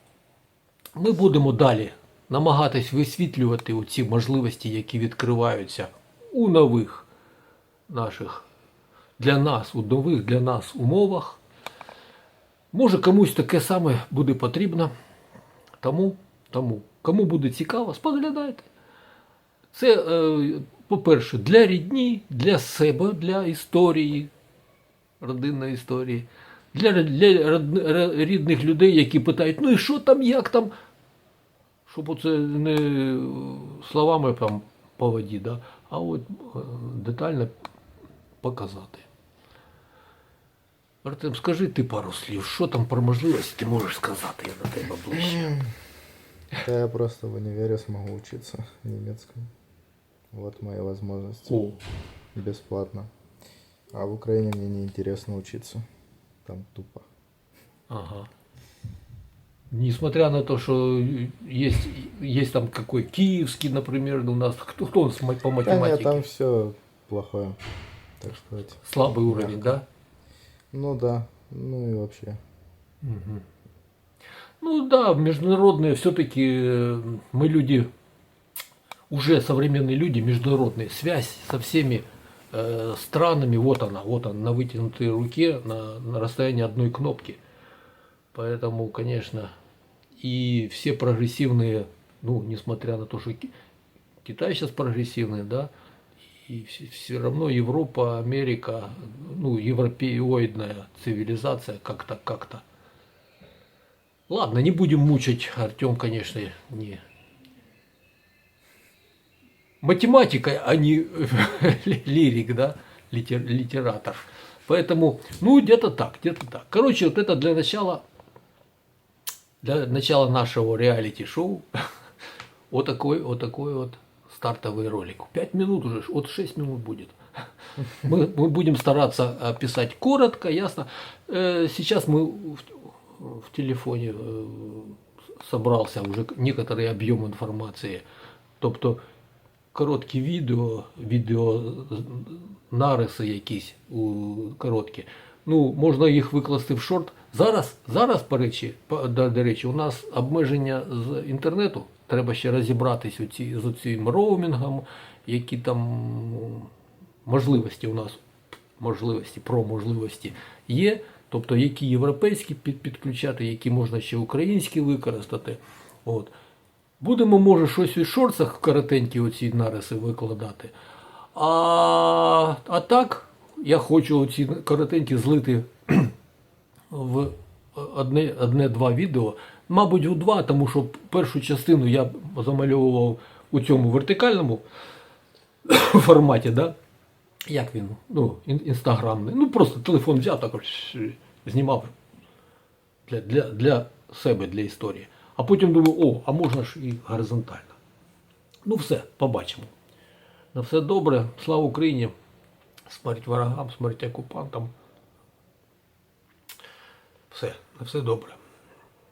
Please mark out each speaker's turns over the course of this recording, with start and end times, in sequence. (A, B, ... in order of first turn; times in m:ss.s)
0:01.0-0:07.1 A
0:07.9-0:08.4 A
0:09.2-0:11.4 A
0:12.7-0:14.9 A
0:15.8-0:18.7 A
0:19.7-0:24.3 A
0:25.2-0:30.7 A
0:31.9-0:37.5 A
0:38.4-0:39.1 A
0:41.0-0:45.6 A
0:45.3-0:45.6 B
0:46.6-0:49.5 B
0:50.3-0:51.6 B
0:51.5-0:51.8 A
0:52.3-0:53.1 B
0:53.9-0:55.8 B
0:56.4-0:57.1 B
0:57.9-0:58.3 A
0:59.7-1:06.2 A
1:05.6-1:07.6 B
1:08.2-1:09.8 B
1:08.8-1:09.8 A
1:10.7-1:12.4 B
1:13.0-1:13.4 A
1:14.6-1:17.9 A
1:19.1-1:27.4 A
1:28.3-1:29.5 A
1:30.2-1:33.5 A
1:34.2-1:35.7 A
1:36.4-1:42.6 A
1:44.3-1:47.0 A
1:49.8-1:58.0 A
1:59.6-2:01.9 A
2:02.7-2:07.2 A
2:07.7-2:18.0 A
2:18.6-2:19.0 A
2:19.7-2:36.7 A
2:37.2-2:38.2 A
2:38.8-2:46.3 A
2:47.0-2:50.7 A
2:51.3-2:56.1 A
2:56.9-3:04.6 A
3:05.6-3:06.7 A
3:07.5-3:11.9 A
3:13.1-3:17.8 A
3:18.6-3:19.7 A
3:20.5-3:22.1 A
3:22.8-3:24.7 A
3:27.3-3:28.4 A